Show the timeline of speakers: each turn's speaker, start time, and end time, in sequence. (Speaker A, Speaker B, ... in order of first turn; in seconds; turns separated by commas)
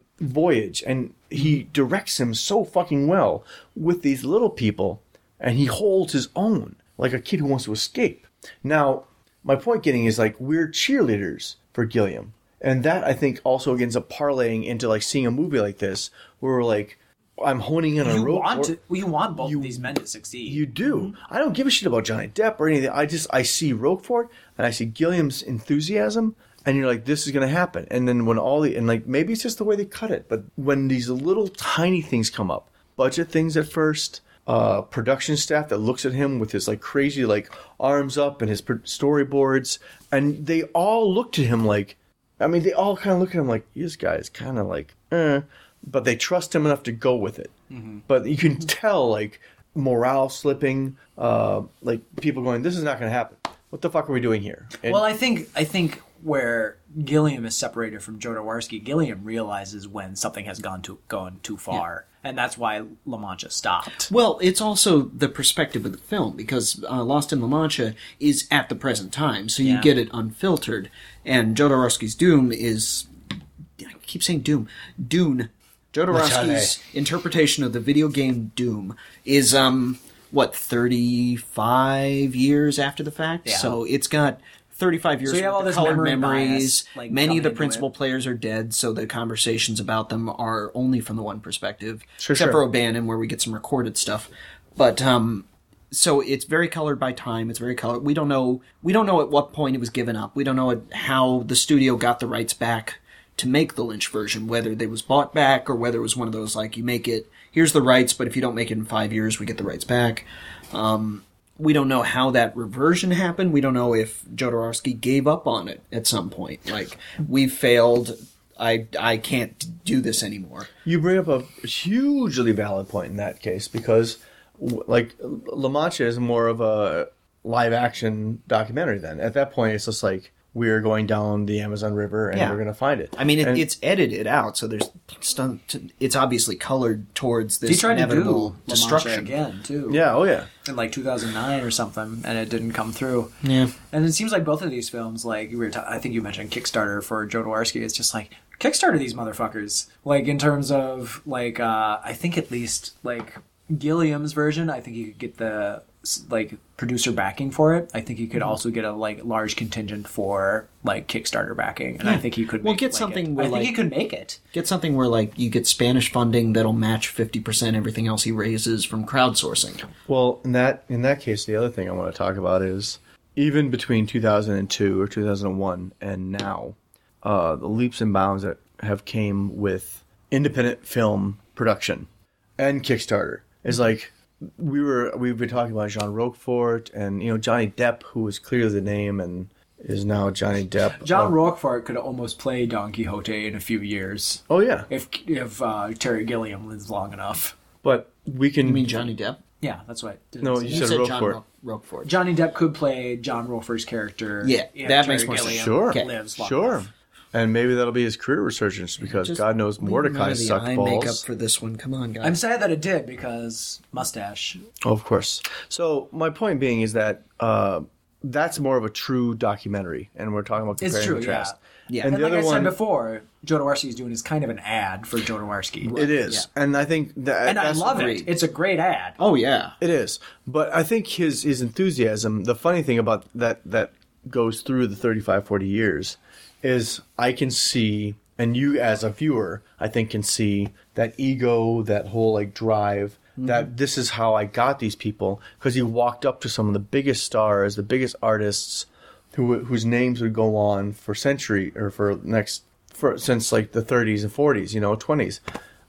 Speaker A: 0.2-18.8, Speaker B: 18.0-21.1, Speaker A: 19.4-19.9, Speaker A: 20.5-47.5, Speaker B: 47.7-48.0, Speaker A: 48.1-55.0, Speaker B: 54.9-64.1, Speaker C: 64.1-73.1, Speaker B: 69.6-69.9, Speaker C: 73.8-120.7, Speaker A: 76.1-76.7, Speaker B: 83.5-83.8, Speaker B: 85.3-87.9, Speaker A: 92.2-92.6, Speaker A: 120.8-133.7, Speaker C: 132.3-132.6, Speaker C: 133.2-139.3, Speaker B: 137.7-140.0, Speaker A: 139.9-140.5, Speaker B: 140.6-143.3, Speaker C: 143.4-143.8, Speaker B: 143.9-164.4, Speaker C: 162.0-163.8, Speaker C: 164.5-169.9, Speaker A: 170.1-191.3, Speaker B: 191.0-197.6, Speaker A: 194.5-194.9, Speaker A: 197.8-199.1, Speaker C: 198.6-199.4, Speaker B: 199.6-201.0, Speaker A: 200.4-201.4, Speaker C: 200.7-202.1, Speaker B: 202.0-206.9, Speaker C: 204.4-206.1, Speaker A: 205.5-211.2, Speaker C: 209.0-212.4, Speaker B: 212.2-214.6, Speaker A: 214.8-222.8, Speaker B: 220.8-226.0, Speaker C: 221.9-222.2, Speaker C: 225.8-226.5, Speaker A: 225.9-228.2, Speaker B: 227.5-229.2, Speaker C: 227.9-228.3, Speaker C: 229.2-229.8, Speaker A: 229.8-255.4, Speaker C: 243.4-243.7